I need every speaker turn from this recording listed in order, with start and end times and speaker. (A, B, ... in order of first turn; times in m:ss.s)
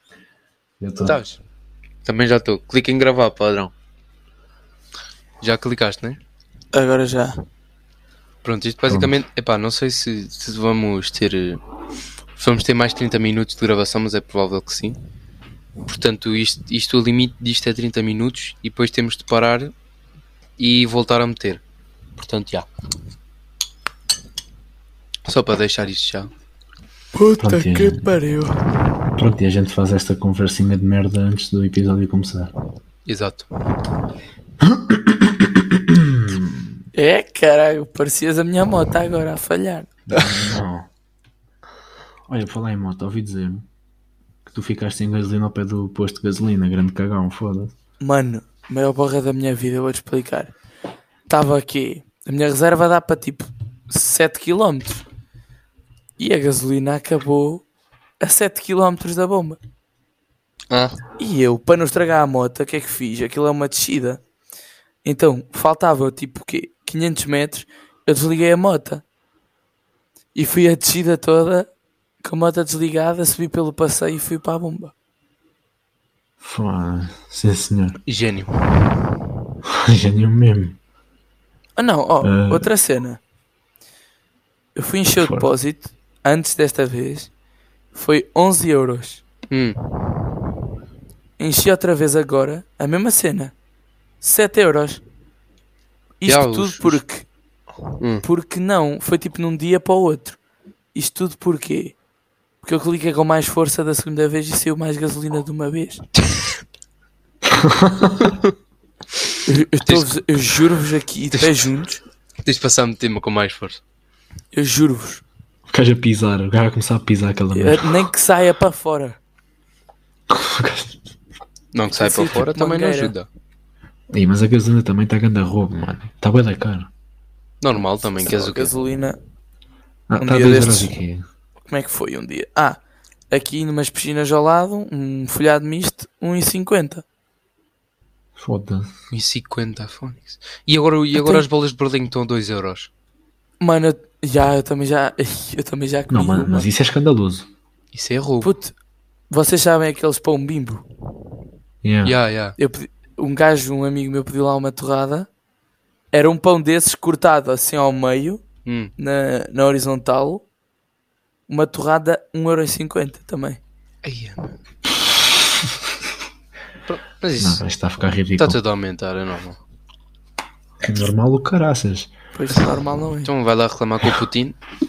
0:00.8-0:01.2 A
0:01.0-0:01.4 B
0:02.0-0:03.7 B
0:05.4-0:06.2 B
0:06.7-0:07.4 C
0:08.4-0:11.6 B
0:08.9-0:09.1 A
0:12.4-0:15.0 B
0:15.8-0:19.7 B
0:20.6-0:21.6 B
0:22.2-0:22.7 B
0:25.2-0:26.3 B
0:27.2-0:28.6 C
0:27.4-0:28.0 A
0:29.2-0:32.5 A
0:33.1-0:33.5 B
0:34.6-0:36.8 A
0:36.9-0:40.3 C
0:40.1-0:40.9 A
0:42.3-0:43.7 A
0:44.5-0:47.7 A
0:48.0-0:50.5 C
0:51.3-0:55.0 C
0:56.2-0:57.6 C
0:58.2-0:59.6 C
1:00.7-1:01.0 B
1:01.2-1:04.2 C
1:05.0-1:09.0 C
1:10.4-1:11.7 C
1:12.2-1:14.9 C
1:16.4-1:18.0 A
1:18.1-1:18.8 B
1:19.6-1:20.8 A
1:21.8-1:23.2 C
1:22.2-1:22.7 A
1:24.8-1:27.3 C
1:25.2-1:25.5 A
1:27.9-1:29.2 C
1:29.5-1:29.8 B
1:31.4-1:33.5 C
1:34.2-1:35.0 C
1:36.2-1:37.2 C
1:36.3-1:37.0 B
1:38.0-1:38.2 B
1:38.2-1:40.4 C
1:40.9-1:42.0 C
1:42.6-1:46.1 C
1:47.4-1:48.3 A
1:48.2-1:48.5 B
1:49.5-1:52.0 C
1:49.8-1:50.2 B
1:51.3-1:51.7 B
1:52.4-1:53.8 B
1:54.5-1:55.2 C
1:55.7-1:58.1 A
1:57.5-1:59.2 C
2:00.3-2:01.0 A
2:01.7-2:03.3 B
2:02.0-2:03.1 C
2:04.1-2:06.9 A
2:07.6-2:08.7 B
2:08.2-2:09.2 C
2:10.1-2:11.2 A
2:10.2-2:10.9 C
2:11.7-2:12.8 C
2:13.3-2:17.0 C
2:18.4-2:18.9 A
2:19.1-2:22.9 B
2:21.2-2:21.4 C
2:23.6-2:26.7 C
2:26.1-2:27.5 A
2:27.9-2:28.5 B
2:28.4-2:28.7 C
2:29.3-2:30.8 C
2:31.8-2:32.2 A
2:32.0-2:32.6 B
2:32.6-2:35.3 C
2:36.1-2:38.4 C
2:38.7-2:38.9 B
2:39.0-2:40.4 C
2:41.5-2:43.6 C
2:44.0-2:44.6 B
2:46.9-2:47.6 B
2:47.4-2:48.6 A
2:48.4-2:49.6 B
2:50.8-2:52.1 A
2:52.4-2:53.3 C
2:53.2-2:54.6 B